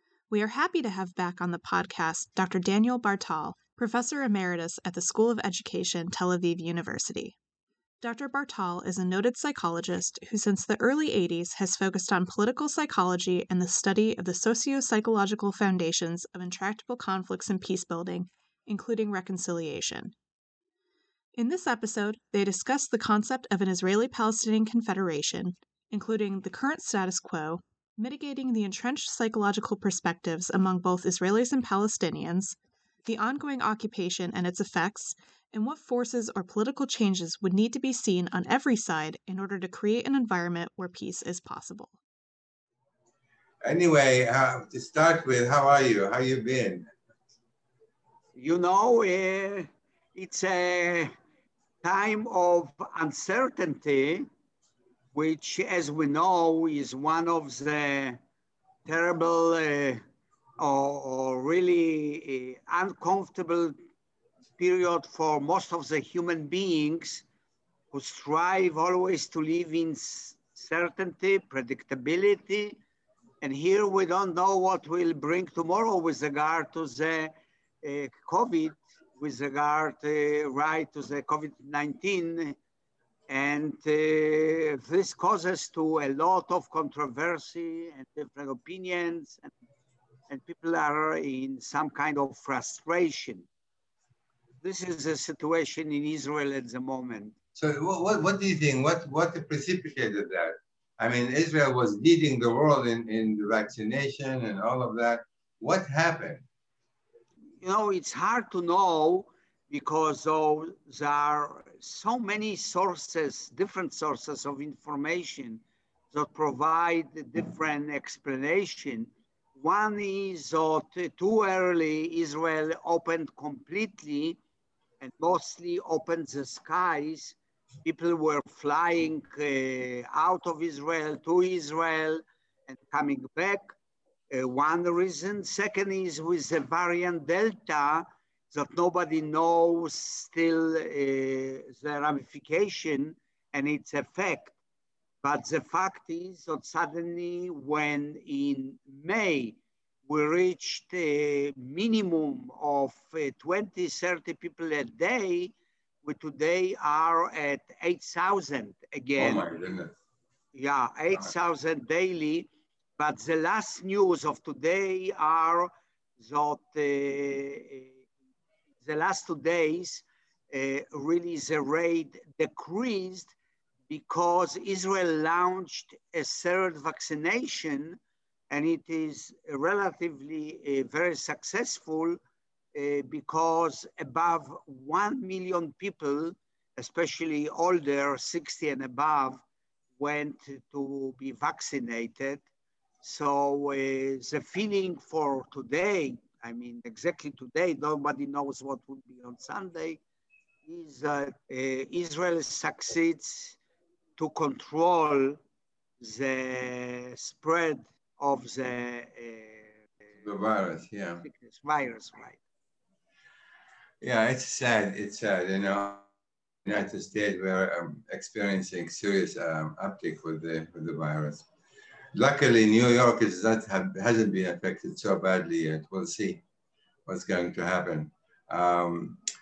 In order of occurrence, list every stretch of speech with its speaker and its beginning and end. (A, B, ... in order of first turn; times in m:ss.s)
0:00.3-0:07.4 A
0:08.0-0:20.1 A
0:21.4-0:42.0 A
0:43.6-0:46.9 B
0:48.4-0:51.1 C
0:51.8-0:54.3 C
0:55.1-0:58.2 C
0:58.9-1:00.0 C
1:00.6-1:03.8 C
1:04.6-1:07.2 C
1:07.9-1:12.8 C
1:13.4-1:17.3 C
1:17.8-1:22.6 C
1:23.3-1:29.5 C
1:30.3-1:33.5 C
1:34.6-1:37.4 C
1:37.6-1:46.4 B
1:47.6-2:04.4 C
2:05.0-2:13.7 C
2:14.3-2:24.6 C
2:25.2-2:39.5 C
2:39.2-2:39.9 B
2:40.5-2:47.9 C
2:48.8-2:53.3 C
2:53.9-2:58.0 C
2:58.5-3:02.2 C
3:02.7-3:09.4 C
3:10.0-3:12.4 C
3:13.0-3:20.0 C
3:20.7-3:23.6 C
3:24.2-3:25.4 C
3:26.0-3:29.8 C
3:30.2-3:31.2 B
3:31.2-3:32.4 C
3:34.0-3:36.0 B
3:36.6-3:41.5 B
3:42.2-3:46.4 B
3:47.1-3:49.2 B